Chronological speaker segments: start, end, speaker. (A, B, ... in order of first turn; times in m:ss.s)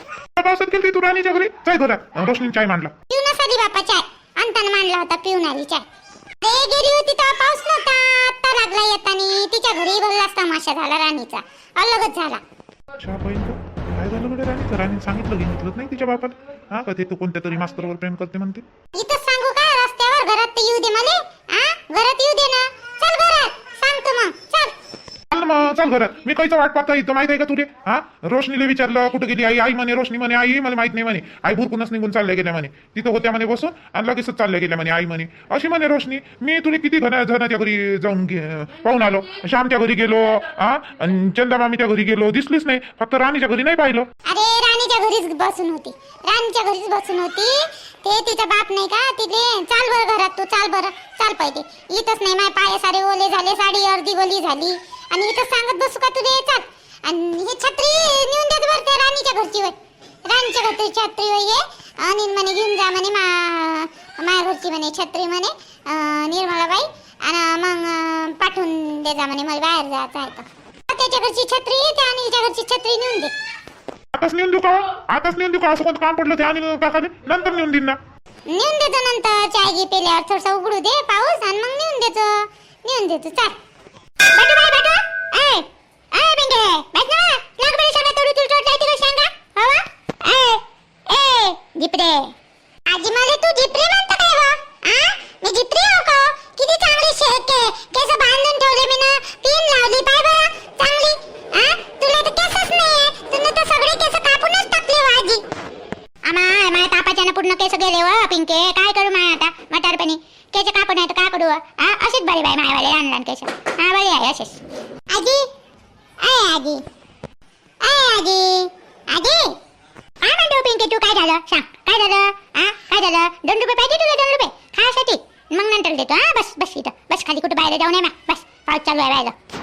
0:00.4-0:02.9 A
0:03.1-0:05.8 B
0:06.4-0:12.4 B
0:13.0-0:18.6 A
0:18.9-0:24.7 B
0:25.3-0:44.1 A
0:44.3-1:13.3 B
1:14.1-1:18.0 A
1:18.5-1:23.6 B
1:24.3-1:29.6 B
1:30.2-1:32.3 B
1:32.9-1:45.4 B
1:46.2-1:54.6 B
1:55.1-1:55.4 B
1:56.2-1:56.8 B
1:57.8-1:59.6 B
2:00.2-2:09.3 B